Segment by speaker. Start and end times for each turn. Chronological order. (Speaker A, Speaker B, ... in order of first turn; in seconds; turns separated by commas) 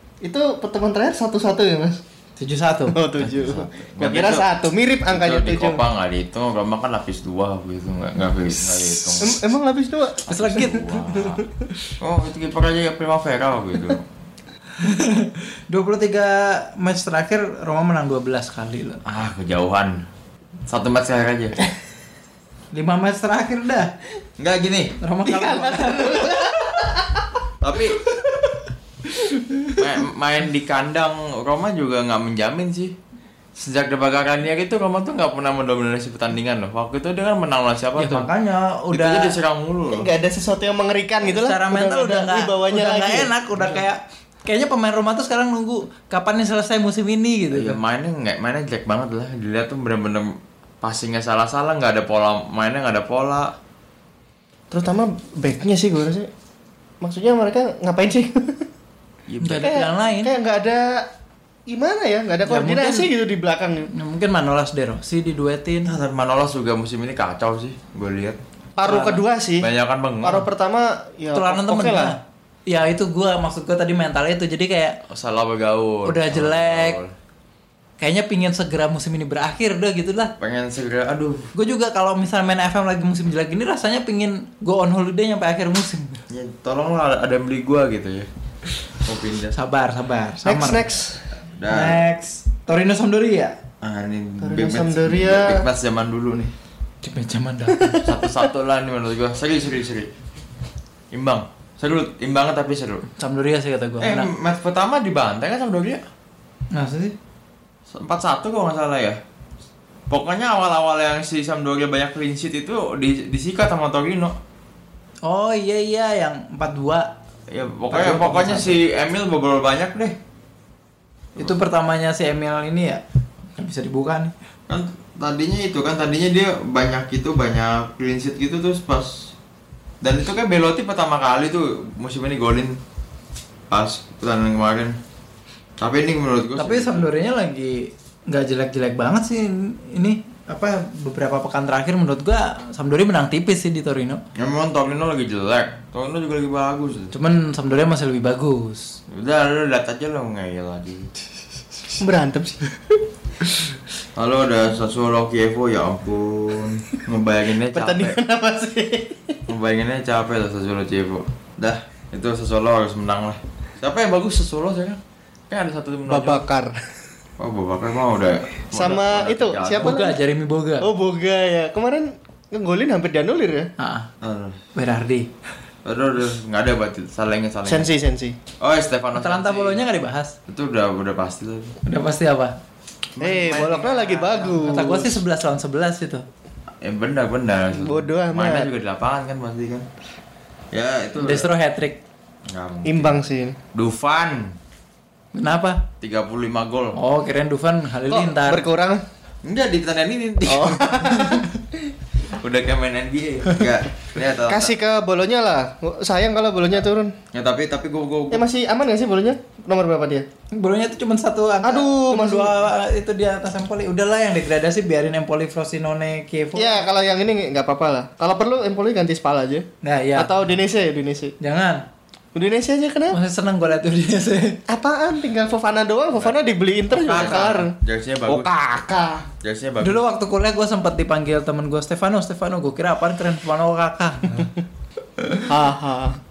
Speaker A: 0.2-2.0, Speaker B: 2.4-3.0, Speaker A: 2.9-5.8, Speaker C: 3.2-4.5, Speaker C: 5.1-9.4, Speaker B: 8.7-9.2, Speaker A: 9.2-11.5, Speaker C: 10.3-11.4, Speaker B: 10.3-11.2, Speaker C: 12.0-14.0, Speaker B: 14.8-19.0, Speaker C: 19.1-20.0, Speaker C: 20.7-21.5, Speaker B: 22.7-23.9, Speaker C: 24.4-24.9, Speaker B: 25.0-26.9, Speaker A: 25.3-27.4, Speaker C: 27.6-28.0, Speaker B: 28.2-28.6, Speaker B: 29.2-29.8, Speaker C: 29.8-32.9, Speaker C: 33.5-38.3, Speaker B: 38.0-39.4, Speaker C: 38.9-40.1, Speaker A: 39.9-43.3, Speaker B: 41.2-47.8, Speaker C: 47.5-53.5, Speaker A: 54.7-56.3, Speaker A: 57.0-58.7, Speaker C: 59.3-59.7, Speaker B: 59.4-60.3, Speaker A: 59.6-61.0, Speaker A: 61.7-63.9, Speaker B: 62.5-63.1, Speaker B: 63.9-65.9, Speaker C: 65.8-68.4, Speaker A: 68.8-69.7, Speaker B: 68.8-69.2, Speaker C: 69.6-70.5, Speaker A: 70.2-72.1, Speaker B: 71.3-75.0, Speaker C: 75.1-77.1, Speaker B: 76.0-77.0, Speaker B: 78.0-80.3, Speaker C: 80.4-81.5, Speaker B: 81.5-86.2, Speaker C: 86.3-88.3, Speaker C: 88.9-89.5, Speaker B: 89.5-90.8, Speaker A: 90.4-91.2, Speaker C: 91.6-92.0, Speaker B: 91.7-93.5, Speaker C: 93.8-96.5, Speaker A: 94.4-95.6, Speaker B: 97.0-98.0, Speaker A: 97.8-98.1, Speaker C: 98.0-100.1, Speaker C: 101.1-103.0, Speaker B: 103.2-104.3, Speaker C: 104.0-106.0, Speaker B: 106.7-107.1, Speaker C: 107.9-109.2, Speaker C: 110.1-114.3, Speaker B: 115.2-117.1, Speaker C: 117.5-120.2, Speaker B: 117.9-118.8, Speaker B: 121.4-123.0, Speaker B: 123.5-124.3, Speaker C: 124.7-129.3, Speaker C: 130.0-132.8, Speaker C: 133.7-134.9, Speaker C: 135.8-137.1, Speaker B: 136.6-144.2, Speaker C: 144.3-147.1, Speaker B: 147.1-149.0, Speaker C: 149.1-151.1, Speaker A: 152.0-152.7, Speaker C: 154.2-158.2, Speaker A: 157.7-159.4, Speaker C: 159.5-166.4, Speaker A: 166.1-166.9, Speaker C: 167.4-170.0, Speaker A: 168.3-170.2, Speaker B: 169.8-170.9, Speaker A: 170.8-173.7, Speaker B: 173.8-174.1, Speaker C: 174.2-174.6, Speaker B: 174.7-175.3, Speaker C: 175.8-177.9, Speaker A: 177.7-178.4, Speaker C: 178.6-179.8, Speaker B: 179.2-180.3, Speaker C: 180.5-181.8, Speaker B: 181.8-182.5, Speaker C: 183.2-184.6, Speaker A: 183.2-185.2, Speaker B: 184.6-186.2, Speaker C: 186.8-189.9, Speaker A: 187.7-188.7, Speaker C: 190.7-191.5, Speaker B: 191.2-192.0, Speaker C: 192.5-193.2, Speaker A: 192.8-193.6, Speaker C: 193.7-194.5, Speaker B: 195.3-195.8, Speaker C: 196.0-197.0, Speaker B: 196.9-198.6, Speaker A: 198.1-199.0, Speaker C: 199.4-201.3, Speaker A: 200.5-201.9, Speaker C: 202.3-204.7, Speaker A: 204.5-207.1, Speaker C: 207.3-208.4, Speaker A: 208.3-210.2, Speaker B: 210.5-216.8, Speaker A: 211.6-212.5, Speaker A: 216.5-221.3, Speaker B: 219.8-220.3, Speaker B: 221.4-221.8, Speaker A: 222.3-223.2, Speaker B: 223.1-224.6, Speaker A: 224.7-227.7, Speaker C: 226.9-228.5, Speaker A: 228.2-229.3, Speaker C: 229.4-230.0, Speaker B: 229.8-234.5, Speaker A: 235.5-236.2